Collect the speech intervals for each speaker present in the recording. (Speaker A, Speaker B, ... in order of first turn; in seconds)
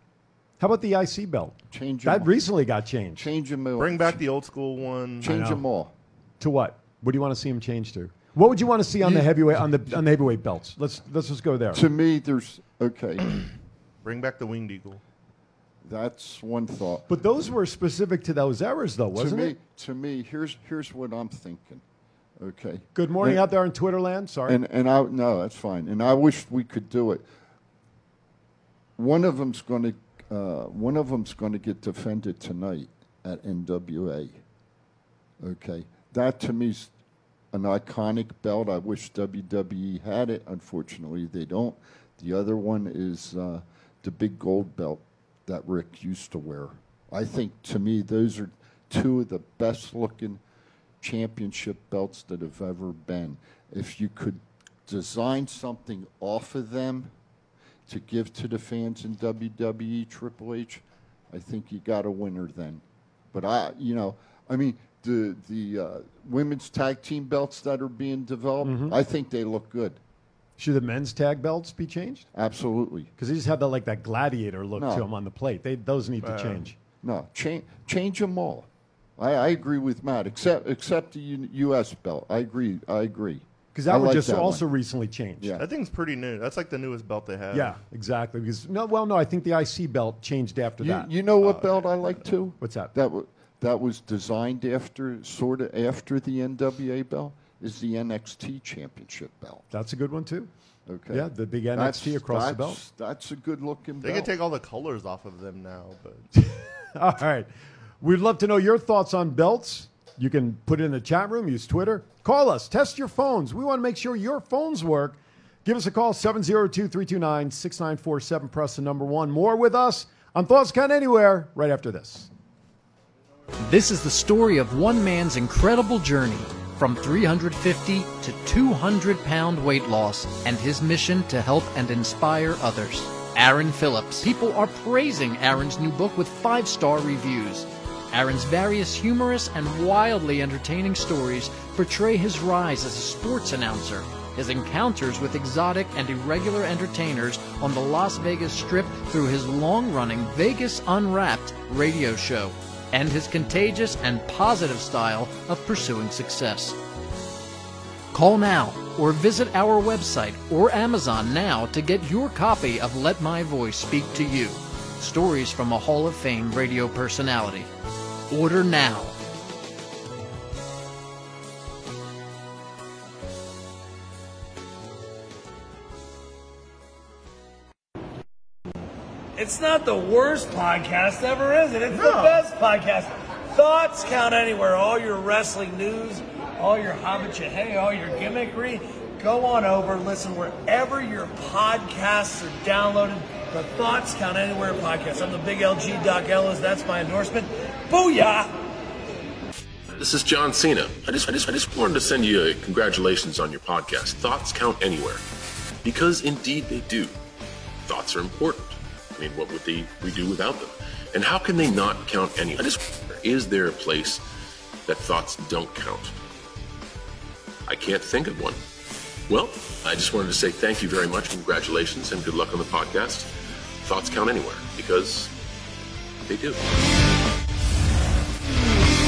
Speaker A: 0.6-3.3, 5.2-5.6, 6.4-11.8, 17.1-19.6, 22.9-24.6, 68.6-69.0, 70.6-72.3, 73.2-76.8, 83.7-85.5, 87.5-91.1, 92.6-92.9, 99.7-100.5, 101.1-102.8, 106.3-107.5, 108.0-122.3
Speaker B: 1.7-2.4, 3.2-4.2, 5.2-5.9, 11.7-13.5, 15.8-17.1, 19.1-21.8, 22.4-23.4, 24.5-27.2, 29.0-34.4, 35.4-36.9, 37.5-50.4, 51.0-57.1, 57.9-70.0, 72.3-73.1, 74.8-75.1, 77.0-84.6, 85.4-85.7, 90.8-99.7, 100.8-104.3
Speaker C: 3.8-5.3, 14.0-15.0, 76.2-76.6, 85.6-87.8, 91.4-92.1, 104.0-106.3
Speaker D: 123.6-156.8, 158.1-167.7, 168.3-169.2
Speaker E: 179.3-198.5
Speaker F: 199.9-205.2, 205.8-207.2, 207.8-214.2, 214.8-216.2, 217.7-218.6, 219.3-225.3, 226.3-226.7